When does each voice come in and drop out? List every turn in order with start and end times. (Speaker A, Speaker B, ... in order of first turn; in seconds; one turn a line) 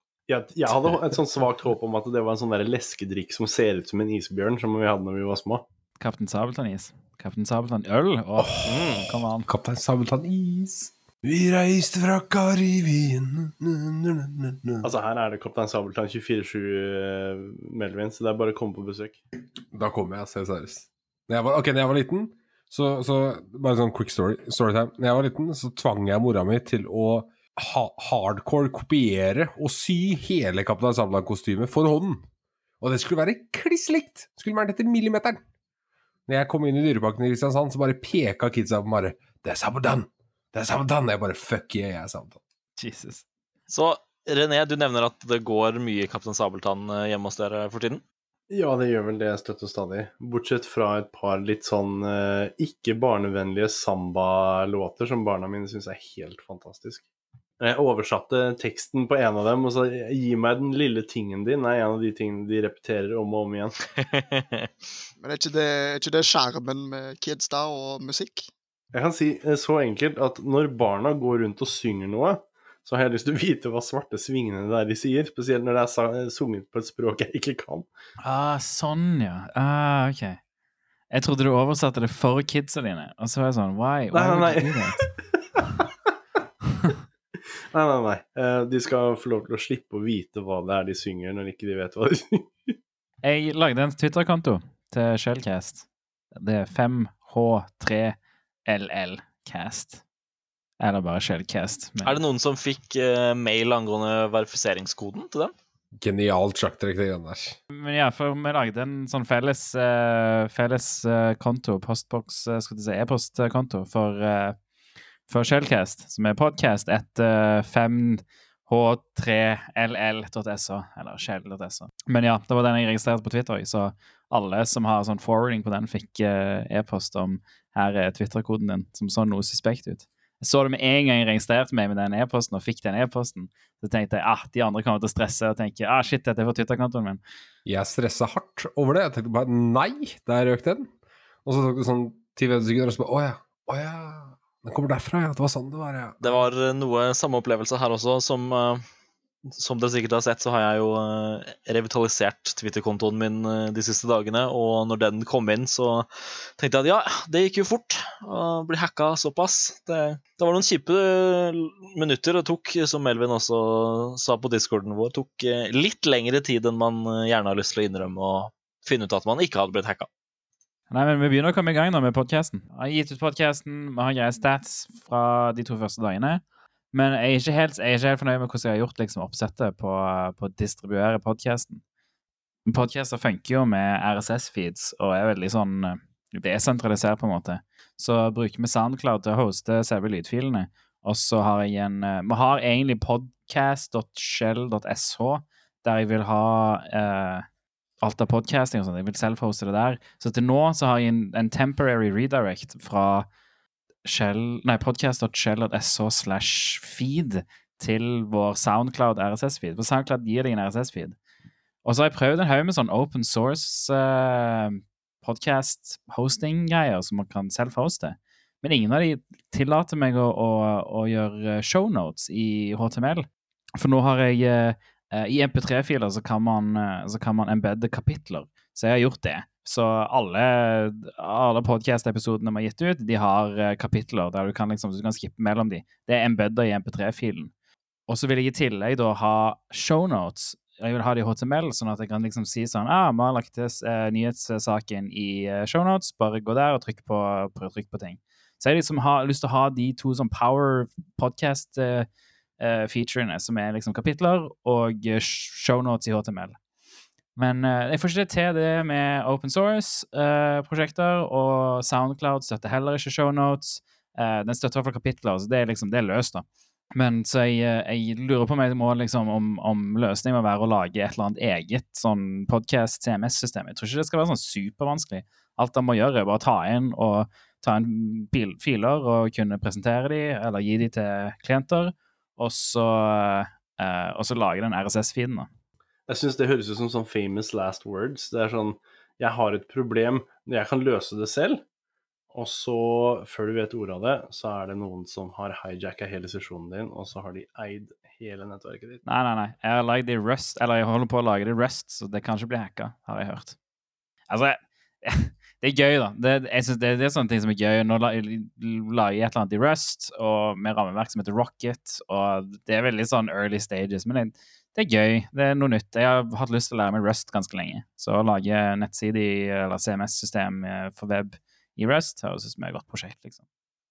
Speaker A: 0.3-5.7
Speaker B: 6.0-9.5
Speaker C: 8.4-14.9
Speaker A: 14.8-19.2
Speaker C: 19.7-32.3
Speaker C: 32.8-35.4
Speaker C: 36.3-42.4
Speaker B: 42.8-43.2
Speaker D: 43.7-48.0
Speaker A: 48.5-57.0
Speaker A: 57.6-63.8
Speaker D: 64.0-64.7
Speaker E: 65.2-68.5
Speaker A: 68.9-77.9
Speaker B: 78.2-80.4
Speaker B: 81.1-85.1
Speaker A: 84.1-85.2
Speaker A: 87.7-92.8
Speaker B: 93.2-100.0
Speaker B: 100.8-102.2
Speaker D: 102.0-105.5
Speaker C: 106.0-107.6
Speaker B: 107.7-114.6
Speaker B: 115.3-137.2
Speaker C: 137.7-140.9
Speaker C: 141.4-146.4
Speaker D: 146.2-148.8
Speaker D: 149.5-170.1
Speaker B: 170.9-181.8
Speaker B: 182.7-197.4
Speaker B: 198.0-203.3
Speaker B: 204.1-211.2
Speaker B: 211.8-223.3
Speaker B: 223.8-237.5
Speaker B: 238.1-252.1
Speaker B: 252.6-256.6
Speaker B: 257.4-266.4
Speaker B: 266.9-285.5
Speaker A: 286.1-291.6
Speaker A: 292.3-299.0
Speaker B: 299.1-303.6
Speaker B: 304.3-323.4